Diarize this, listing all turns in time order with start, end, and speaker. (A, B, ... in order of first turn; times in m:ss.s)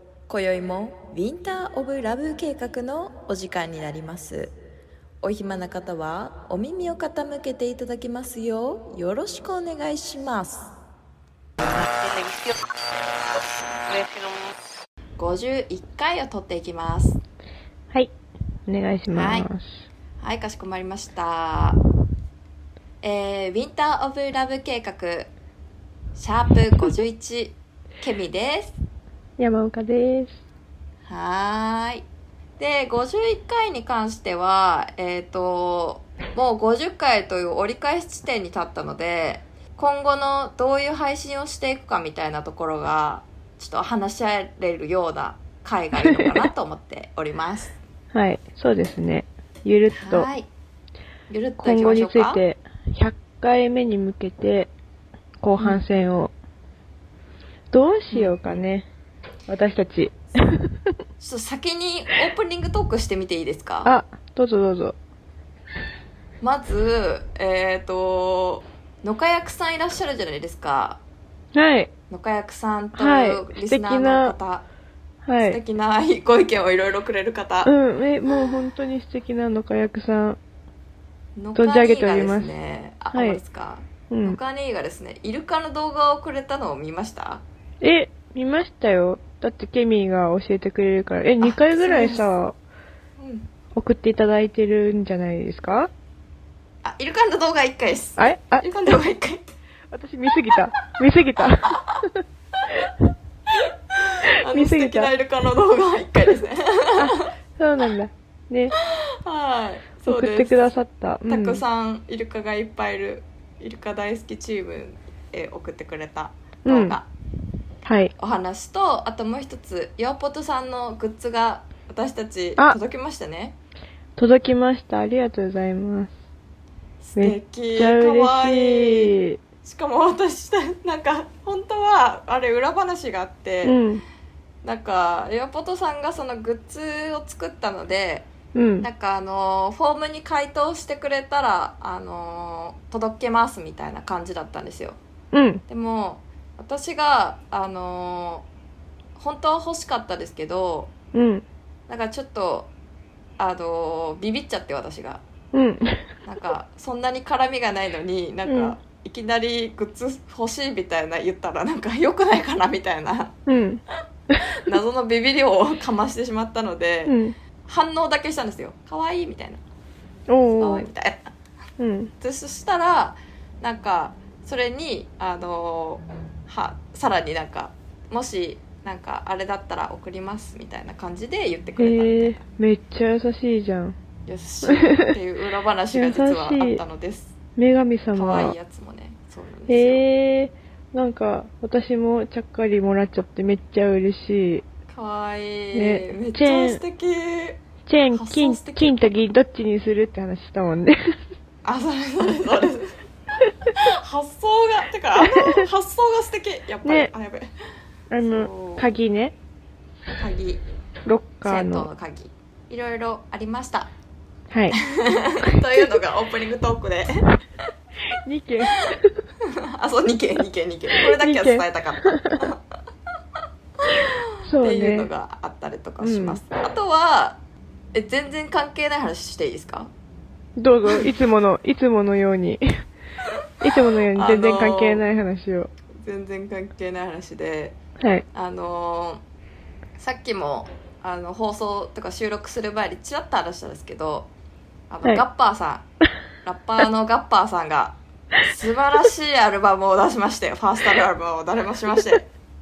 0:00.3-0:04.5 A
0:05.2-0:10.7 A
0:11.6-0:12.6 B
0:13.2-0:14.5 B
0:15.2-0:17.2 A
0:18.7-0:19.7 C
0:19.1-0:19.5 A
0:20.2-0:21.8 A
0:23.0-0:25.3 A
0:26.1-0:28.8 A
0:29.4-0:30.4 C
0:31.1-0:32.0 A
0:32.6-0:47.8 A
0:46.0-0:46.4 C
0:48.1-0:50.3 C
0:49.9-0:50.5 A
0:51.3-0:52.4 A
0:51.6-0:54.7 C
0:55.4-0:56.3 C
0:55.6-0:55.8 A
0:57.7-0:58.9 C
0:58.1-0:58.6 A
0:59.5-1:00.9 C
1:01.2-1:03.9 A
1:03.8-1:05.0 C
1:06.4-1:11.0 A
1:11.5-1:11.9 C
1:12.1-1:14.6 A
1:13.0-1:14.4 C
1:15.2-1:15.6 C
1:15.4-1:17.7 A
1:17.6-1:20.4 C
1:21.4-1:27.4 A
1:21.6-1:22.5 C
1:23.1-1:23.4 C
1:24.1-1:24.4 C
1:27.8-1:32.6 C
1:31.4-1:32.3 A
1:33.2-1:33.5 A
1:33.7-1:35.9 C
1:36.8-1:39.4 A
1:38.2-1:38.7 C
1:39.9-1:41.8 C
1:42.7-1:43.0 C
1:43.5-1:47.3 A
1:44.3-1:45.1 C
1:47.0-1:48.8 C
1:48.8-1:50.6 A
1:50.0-1:51.6 C
1:51.3-1:57.1 A
1:56.6-1:57.0 C
1:57.8-1:58.1 C
1:58.2-2:03.6 A
2:04.2-2:06.1 C
2:07.0-2:13.8 A
2:07.2-2:09.4 C
2:13.6-2:14.0 C
2:14.6-2:18.3 A
2:18.5-2:18.9 C
2:18.8-2:25.0 A
2:25.3-2:25.6 C
2:25.7-2:28.4 A
2:29.2-2:30.9 A
2:31.1-2:31.4 C
2:31.9-2:32.7 A
2:33.4-2:35.2 A
2:35.5-2:36.0 C
2:36.2-2:43.3 A
2:38.4-2:38.8 C
2:43.4-2:44.5 C
2:44.5-2:47.1 A
2:47.0-2:47.3 C
2:47.7-2:49.6 A
2:50.3-2:50.9 C
2:50.6-2:51.3 A
2:51.8-2:52.1 C
2:52.2-3:02.4 A
3:01.8-3:04.0 C
3:04.2-3:07.3 A
3:04.7-3:05.1 C
3:05.9-3:06.8 C
3:07.6-3:08.5 C
3:08.1-3:10.0 A
3:09.7-3:14.6 C
3:14.9-3:17.6 A
3:15.7-3:16.8 C
3:17.9-3:21.1 C
3:18.1-3:19.1 A
3:21.6-3:23.0 A
3:23.7-3:27.5 A
3:25.2-3:25.6 C
3:26.8-3:27.1 C
3:28.1-3:29.3 C
3:28.2-3:28.9 A
3:30.2-3:30.6 A
3:31.0-3:31.9 C
3:31.4-3:33.9 A
3:34.5-3:34.8 C
3:34.8-3:37.2 A
3:35.5-3:35.9 C
3:38.2-3:39.3 C
3:39.4-3:42.6 A
3:41.0-3:42.4 C
3:43.9-3:47.4 A
3:44.4-3:45.1 C
3:46.0-3:46.4 C
3:47.9-3:49.9 A
3:50.6-3:52.6 C
3:53.6-3:55.7 C
3:54.1-3:55.0 A
3:56.0-3:57.8 A
3:58.0-3:58.2 C
3:58.3-3:59.2 A
4:00.0-4:04.3 A
4:04.9-4:05.8 A
4:06.4-4:12.3 A